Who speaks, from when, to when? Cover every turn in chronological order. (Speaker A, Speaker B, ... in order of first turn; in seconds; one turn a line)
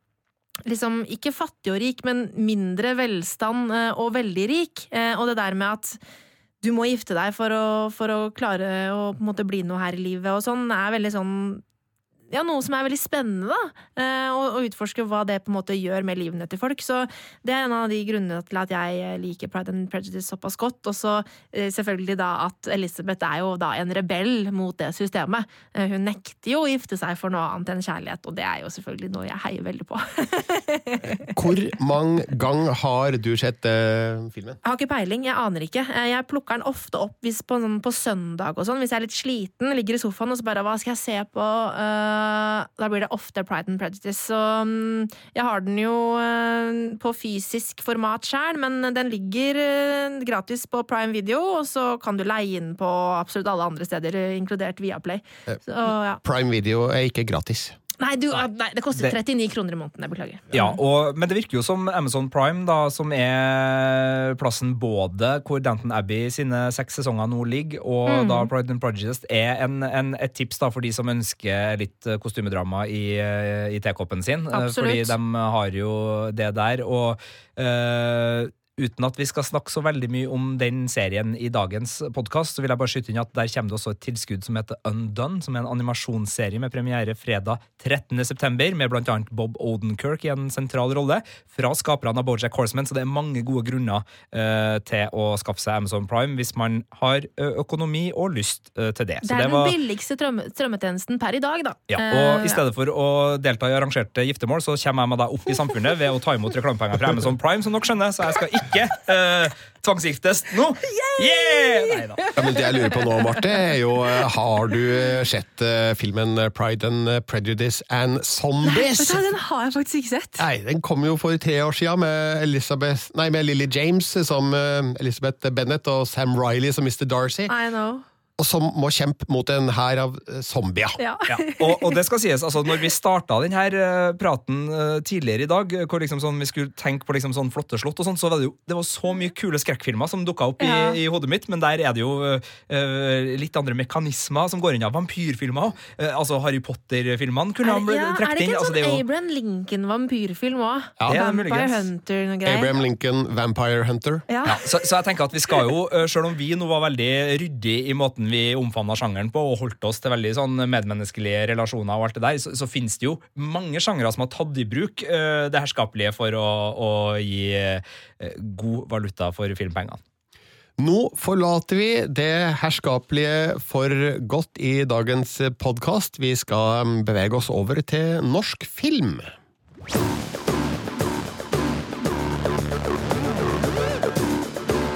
Speaker A: 0.7-6.0
Speaker A: 6.6-11.6
Speaker A: 12.3-31.3
Speaker B: 31.3-34.6
Speaker A: 34.6-56.2
Speaker B: 55.5-57.8
Speaker A: 58.0-60.8
Speaker C: 60.5-99.8
Speaker A: 68.1-68.5
Speaker A: 74.5-75.2
Speaker A: 99.2-102.6
Speaker C: 101.9-112.3
Speaker A: 110.8-113.4
Speaker B: 112.4-119.2
Speaker A: 118.6-120.5
Speaker B: 120.4-127.5
Speaker A: 127.5-128.0
Speaker B: 128.4-131.0
Speaker A: 131.0-132.0
Speaker C: 131.3-149.0
Speaker A: 140.6-141.0
Speaker A: 147.6-152.7
Speaker C: 151.1-151.9
Speaker B: 152.4-154.2
Speaker A: 154.3-154.6
Speaker C: 154.5-170.0
Speaker B: 170.8-179.3